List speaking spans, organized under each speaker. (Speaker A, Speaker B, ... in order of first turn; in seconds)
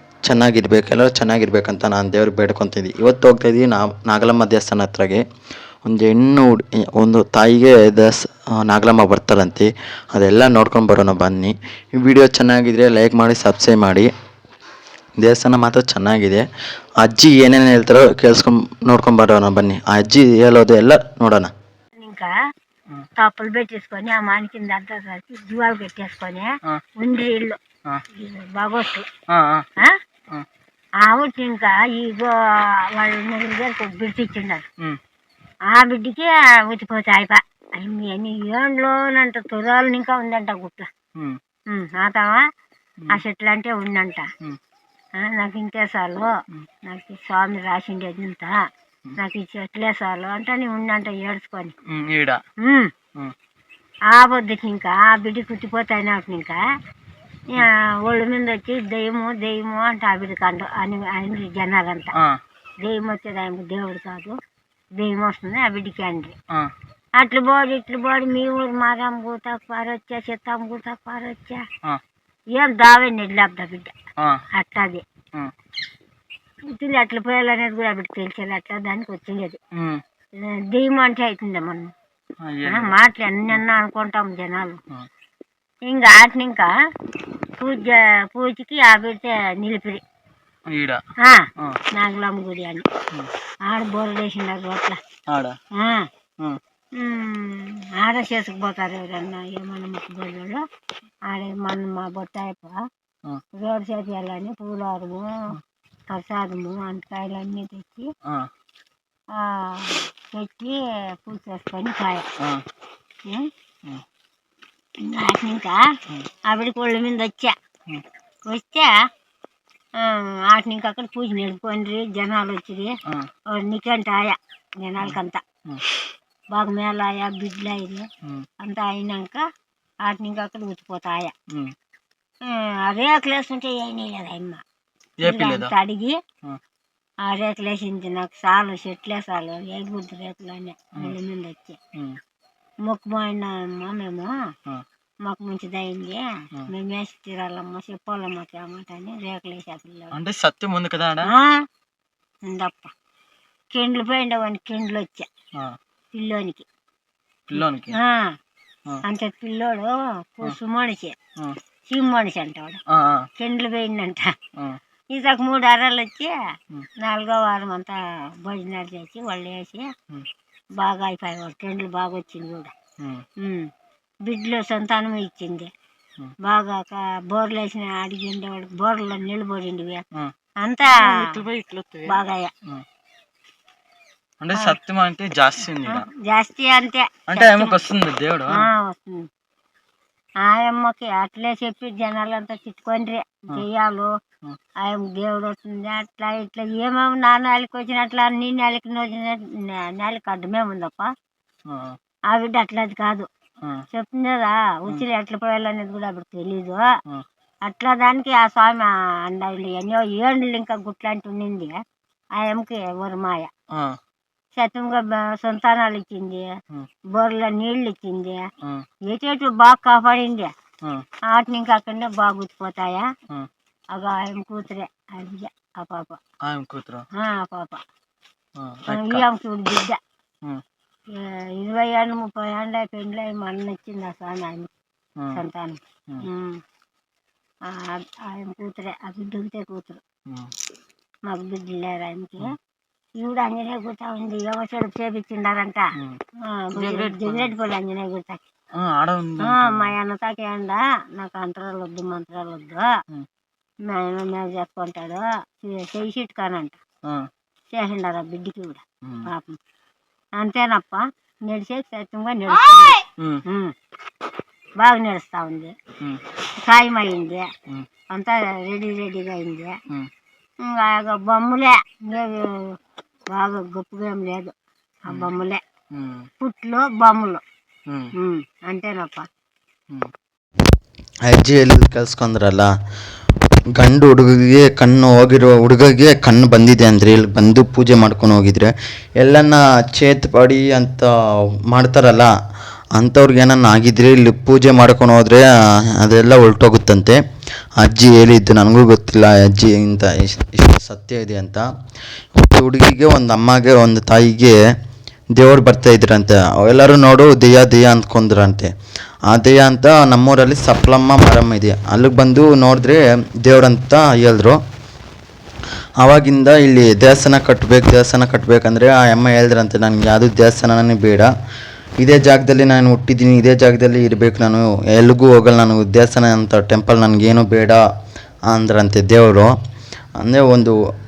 Speaker A: 0.2-5.2, 5.8-14.1, 15.2-16.5, 17.0-21.5, 281.2-282.7, 283.7-292.3, 292.9-297.2, 297.8-301.7, 302.4-304.6, 305.3-308.7, 309.3-314.6, 316.0-321.3, 322.0-327.8, 328.5-329.5, 330.2-330.8
Speaker B: 22.0-22.3, 23.2-27.6, 28.1-29.1, 31.0-32.3, 33.0-34.6, 35.7-40.9, 41.7-42.4, 43.1-44.3, 45.2-46.3, 46.8-48.5, 49.2-51.7, 52.6-52.9, 54.1-56.6, 57.5-62.1, 62.8-64.4, 65.0-66.3, 67.2-71.6, 72.5-73.9, 74.5-75.0, 76.7-79.6, 80.4-81.9, 82.7-84.8, 85.9-86.7, 87.6-90.0, 91.2-92.9, 93.7-95.0, 95.8-96.1, 97.0-100.6, 101.3-102.8, 103.5-105.4, 106.1-108.1, 109.3-112.3, 115.0-115.8, 116.5-117.5, 118.5-118.9, 120.0-122.9, 123.5-125.4, 126.5-128.1, 128.6-129.4, 130.1-131.3, 132.4-134.6, 135.2-136.2, 137.2-141.8, 142.9-144.3, 145.2-150.2, 151.2-151.6, 152.5-152.9, 153.7-155.3, 156.1-156.7, 157.6-158.3, 159.0-161.2, 161.9-162.8, 163.4-164.3, 165.1-166.3, 167.0-169.9, 170.8-172.7, 173.4-173.7, 174.3-175.7, 176.4-180.0, 180.6-181.4, 182.1-182.5, 185.8-187.8, 188.5-189.3, 190.4-194.1, 194.8-201.1, 202.3-203.3, 203.9-206.9, 207.7-211.8, 212.4-213.5, 214.6-216.5, 217.1-218.4, 219.1-220.5, 221.3-223.1, 223.9-226.2, 227.1-227.8, 228.9-230.0, 231.1-234.7, 235.3-236.6, 237.7-240.0, 241.3-242.6, 243.2-245.9, 246.4-248.4, 249.4-252.9, 253.9-256.8, 257.7-259.6, 260.4-263.7, 264.8-265.8, 266.6-267.5, 268.1-269.7, 270.6-272.7, 273.3-274.5, 275.1-275.6, 276.4-277.4, 278.2-279.3
Speaker C: 29.3-29.7, 51.9-52.4, 79.8-80.0, 82.4-83.0, 90.7-91.0, 95.3-95.6, 108.2-108.5, 125.0-125.8, 131.5-131.8, 135.2-135.7, 141.9-142.2, 150.1-151.3, 157.5-157.9, 162.9-163.3, 173.0-173.3, 180.9-182.8, 184.4-186.1, 187.3-188.7, 201.7-202.0, 213.7-214.0, 226.4-227.1, 228.6-229.2, 240.3-240.5, 246.8-247.5, 248.8-249.9, 257.1-257.3, 263.2-263.4, 275.9-276.3, 277.9-278.1